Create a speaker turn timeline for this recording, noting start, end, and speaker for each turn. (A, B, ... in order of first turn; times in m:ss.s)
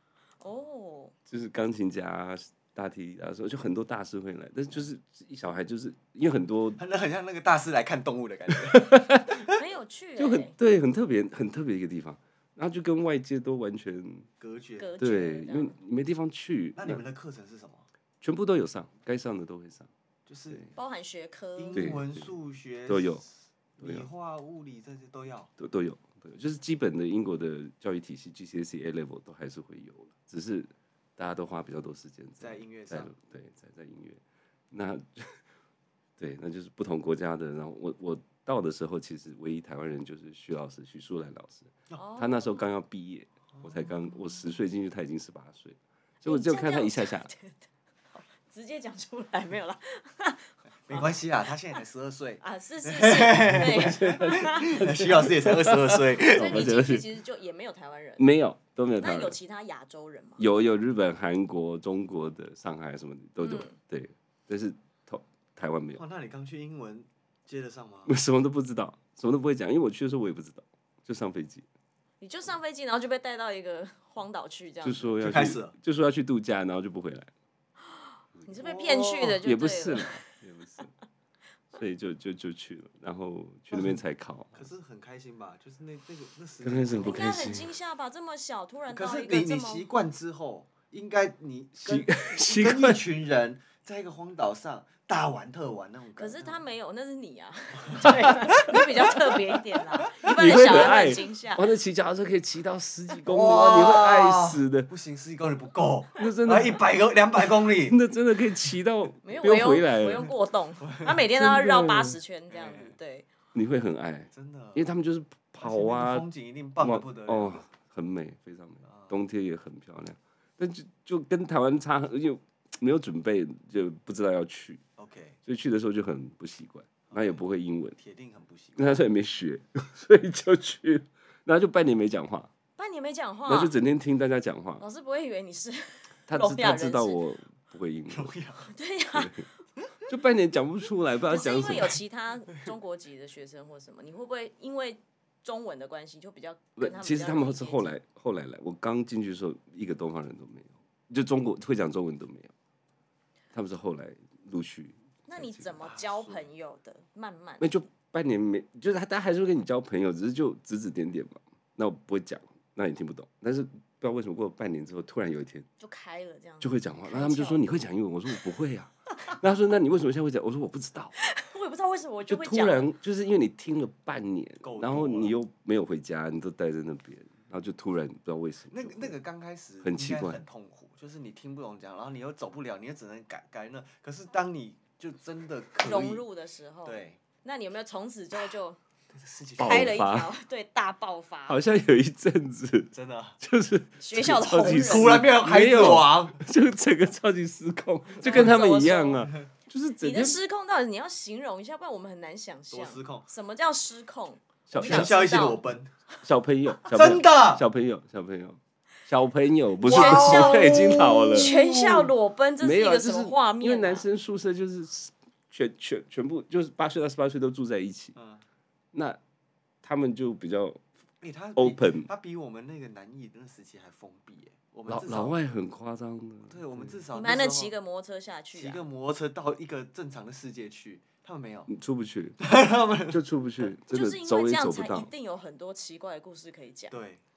0:00.4-0:01.1 A
0:01.3-0:06.8 B
0:06.8-0:09.6 C
0:08.5-0:09.4 B
0:09.5-0:10.5 A
0:10.2-0:14.3 B
0:14.4-0:14.9 C
0:14.8-0:15.8 A
0:15.0-0:17.0 B
0:16.8-0:17.9 C
0:18.2-0:19.9 B
0:20.3-0:20.6 C
0:20.7-0:22.0 A
0:21.6-0:25.5 C
0:21.7-0:22.3 B
0:22.9-0:23.2 B
0:23.8-0:24.1 B
0:25.6-0:35.4 B
0:32.4-0:33.1 C
0:36.2-0:47.3 B
0:41.9-0:42.6 A
0:46.2-0:51.1 A
0:50.9-0:56.7 C
0:52.4-0:54.9 A
0:53.6-0:57.0 B
0:56.2-0:58.3 A
0:58.2-0:59.4 B
0:59.0-1:00.4 A
1:00.4-1:06.0 B
1:03.4-1:03.8 A
1:05.9-1:08.2 C
1:08.0-1:11.6 B
1:12.2-1:15.2 A
1:14.8-1:17.3 B
1:15.2-1:15.7 C
1:17.9-1:20.2 A
1:18.6-1:19.4 C
1:19.2-1:20.9 B
1:21.7-1:24.7 B
1:23.7-1:24.0 C
1:24.5-1:27.5 C
1:26.6-1:27.7 B
1:27.0-1:29.9 A
1:28.9-1:36.6 C
1:31.8-1:33.0 B
1:36.2-1:41.6 A
1:37.9-1:38.8 C
1:40.1-1:44.9 B
1:40.6-1:41.0 C
1:43.2-1:48.0 C
1:46.2-1:46.8 B
1:47.7-1:50.3 B
1:49.2-1:53.3 A
1:50.8-1:51.1 C
1:51.3-1:52.2 B
1:52.5-1:52.9 C
1:53.5-1:56.2 B
1:54.3-1:54.9 C
1:55.6-1:57.6 C
1:56.8-2:04.8 B
1:58.8-1:59.1 C
2:05.0-2:05.4 C
2:05.4-2:08.0 B
2:07.1-2:07.4 C
2:08.0-2:09.0 C
2:08.8-2:12.5 B
2:12.8-2:13.7 A
2:13.4-2:14.8 B
2:14.8-2:17.2 A
2:16.3-2:18.3 B
2:18.1-2:18.7 C
2:18.7-2:19.5 A
2:19.1-2:19.4 B
2:20.1-2:22.0 B
2:21.3-2:27.9 A
2:26.8-2:32.5 B
2:33.5-2:35.8 B
2:35.3-2:37.7 A
2:35.8-2:36.5 C
2:37.6-2:45.6 B
2:45.8-2:47.6 A
2:46.6-2:51.2 B
2:51.2-2:52.9 A
2:52.3-2:59.1 B
2:54.6-2:55.3 C
2:58.7-3:06.2 C
2:59.8-3:00.4 B
3:05.8-3:08.8 A
3:06.8-3:07.2 C
3:09.1-3:10.0 C
3:09.6-3:10.3 B
3:09.6-3:11.6 A
3:11.5-3:20.4 B
3:12.9-3:13.4 C
3:14.0-3:15.2 A
3:14.6-3:16.4 C
3:18.2-3:19.3 A
3:20.0-3:25.6 A
3:22.7-3:23.3 C
3:24.7-3:25.4 B
3:24.8-3:25.9 C
3:26.2-3:31.5 B
3:26.9-3:27.6 C
3:29.8-3:32.1 C
3:29.8-3:34.0 A
3:32.6-3:38.1 B
3:38.1-3:38.4 C
3:38.9-3:39.2 B
3:39.8-3:40.8 B
3:41.2-3:45.4 C
3:41.6-3:42.1 B
3:44.9-3:47.0 B
3:46.5-3:47.7 C
3:47.1-3:48.8 A
3:48.5-3:51.7 C
3:51.7-3:52.4 B
3:52.4-3:53.2 C
3:53.1-3:55.1 B
3:53.9-3:57.0 A
3:56.9-3:57.2 C